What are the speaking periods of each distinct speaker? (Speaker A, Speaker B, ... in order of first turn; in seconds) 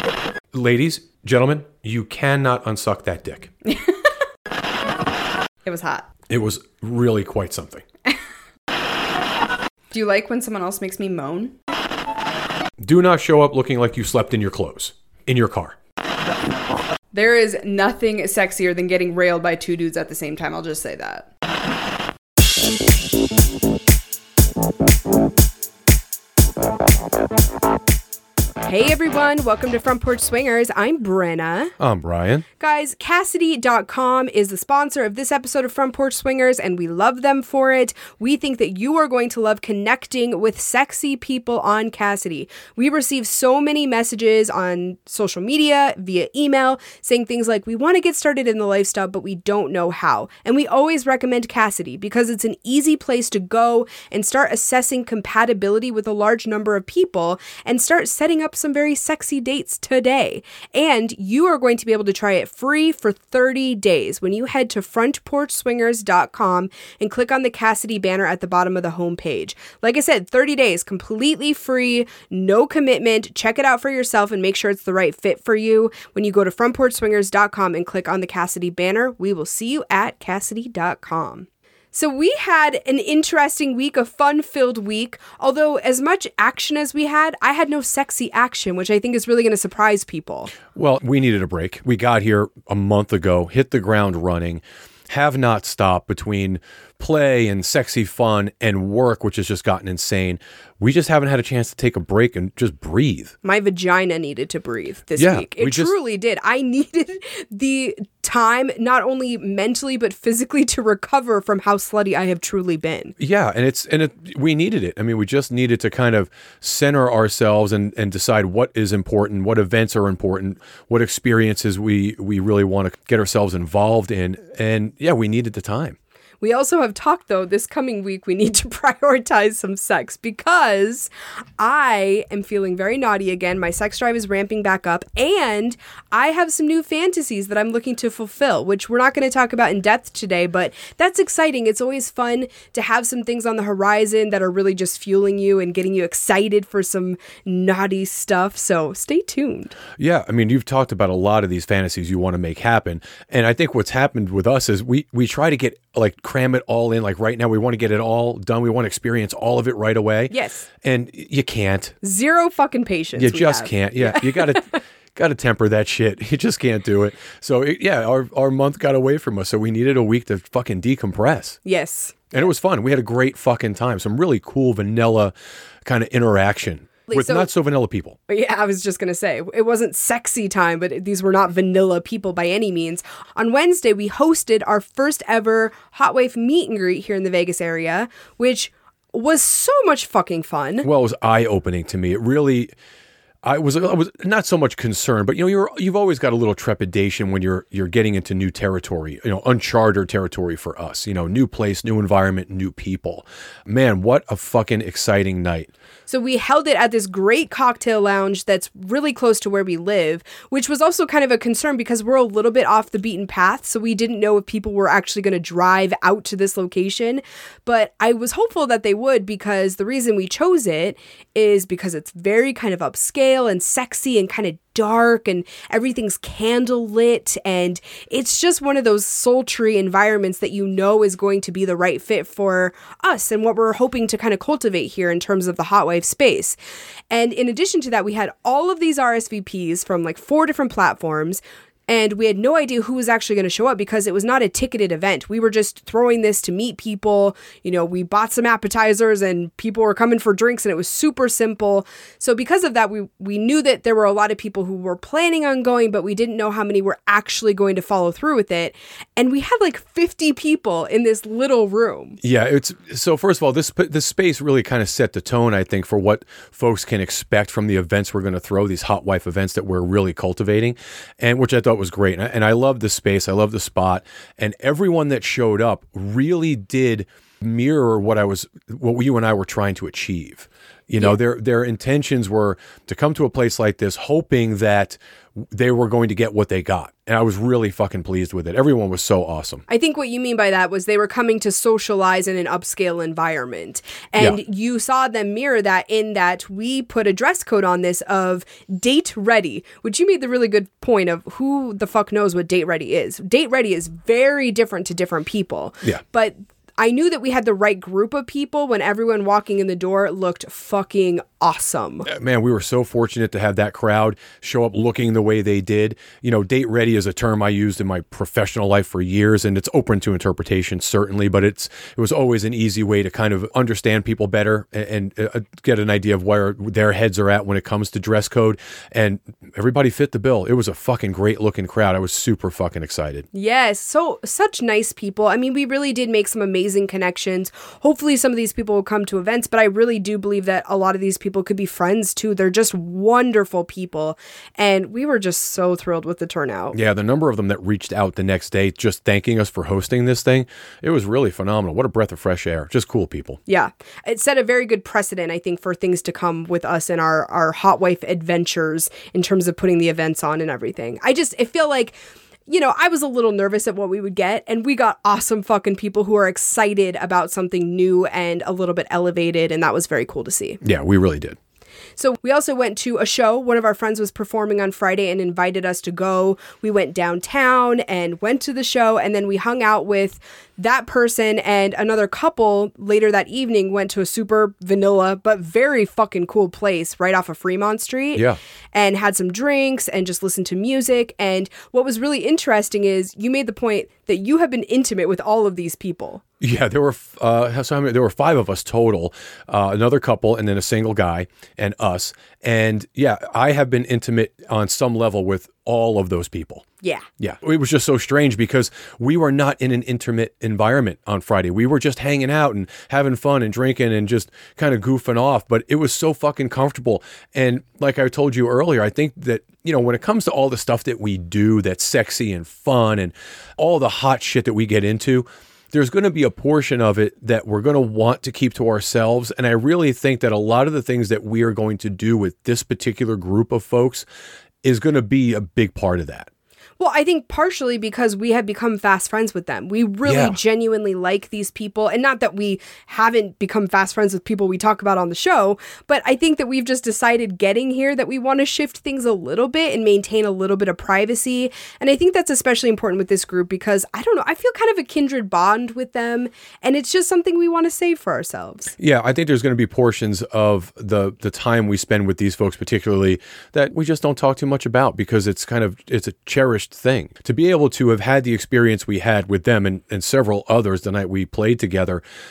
Speaker A: 0.5-3.5, 6.3-7.8, 12.8-15.8, 31.8-32.4, 90.7-103.3, 105.2-105.9, 113.2-126.0, 150.0-161.9, 163.2-171.6, 172.3-175.3, 175.8-178.2, 190.8-192.7, 193.4-205.7, 262.2-289.6, 312.1-333.2, 346.7-353.4, 370.6-371.4, 396.4-406.6, 407.2-434.1, 434.6-436.3, 440.1-440.4, 458.8-472.0
Speaker B: 3.6-4.0, 5.6-6.1, 9.9-11.5, 17.1-21.3, 28.6-31.7, 32.6-90.5, 103.4-113.1, 126.4-149.7, 160.3-160.7, 162.0-164.8, 171.6-172.3, 177.1-177.5, 178.3-190.9, 206.1-236.6, 237.1-262.2, 289.7-312.1, 333.3-346.8, 353.5-361.9, 362.5-370.6, 372.0-396.2, 406.8-407.1, 436.8-458.7